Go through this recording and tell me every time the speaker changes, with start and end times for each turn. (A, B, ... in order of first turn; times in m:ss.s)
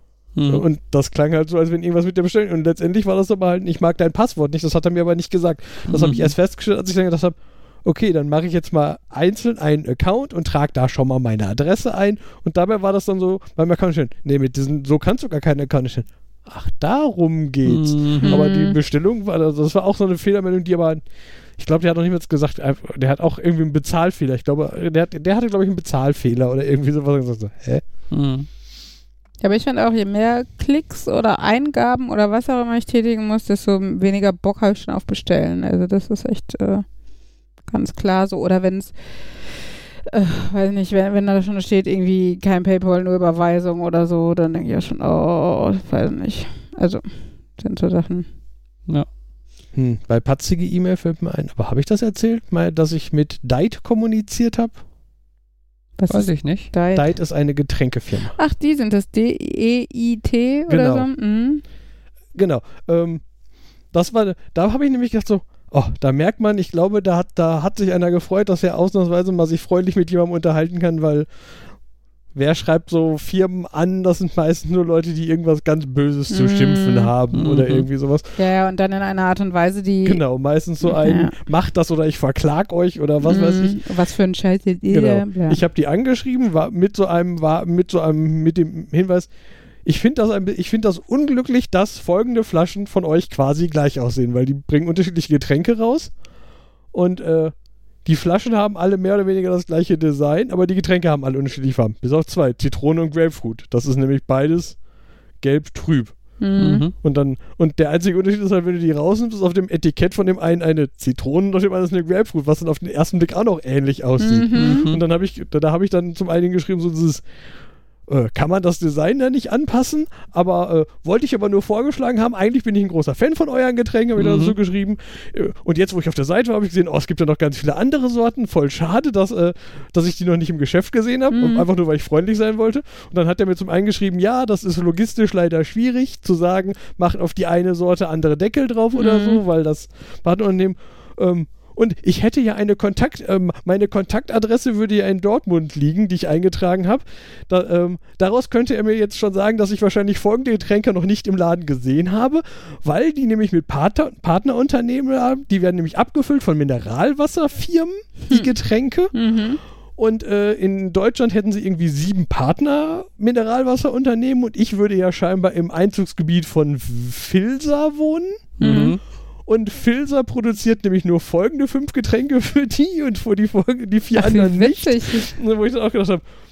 0:00.4-0:00.6 A
0:00.5-0:21.0 B
0:05.9-0:06.3 A
0:17.6-0:18.4 A
0:18.2-0:18.8 C
0:21.6-0:27.8 B
0:28.1-0:28.5 A
0:29.4-0:36.8 C
0:37.7-0:38.9 C
0:40.1-0:47.0 C
0:47.6-0:48.3 C
0:49.7-0:54.8 B
0:56.0-0:57.1 C
0:56.1-0:56.7 A
0:56.9-0:58.3 B
0:58.3-1:01.6 C
1:00.7-1:01.1 B
1:02.3-1:03.3 B
1:03.9-1:11.3 B
1:12.3-1:18.4 B
1:16.3-1:17.1 C
1:17.3-1:17.8 A
1:18.4-1:20.2 C
1:20.0-1:23.8 B
1:20.8-1:21.3 C
1:23.2-1:25.6 C
1:24.9-1:29.3 B
1:29.8-1:36.2 B
1:36.9-1:44.8 B
1:45.4-1:46.4 B
1:46.4-1:46.9 C
1:46.6-1:46.9 A
1:47.0-1:57.2 B
1:54.2-1:54.9 C
1:54.5-1:55.0 A
1:58.1-2:39.1 B
2:04.2-2:04.6 A
2:11.3-2:11.7 C
2:18.9-2:19.4 C
2:39.1-2:39.6 C
2:40.0-2:48.8 B
2:48.6-2:49.0 A
2:48.6-2:49.0 C
2:49.4-2:56.2 B
2:54.1-2:55.3 C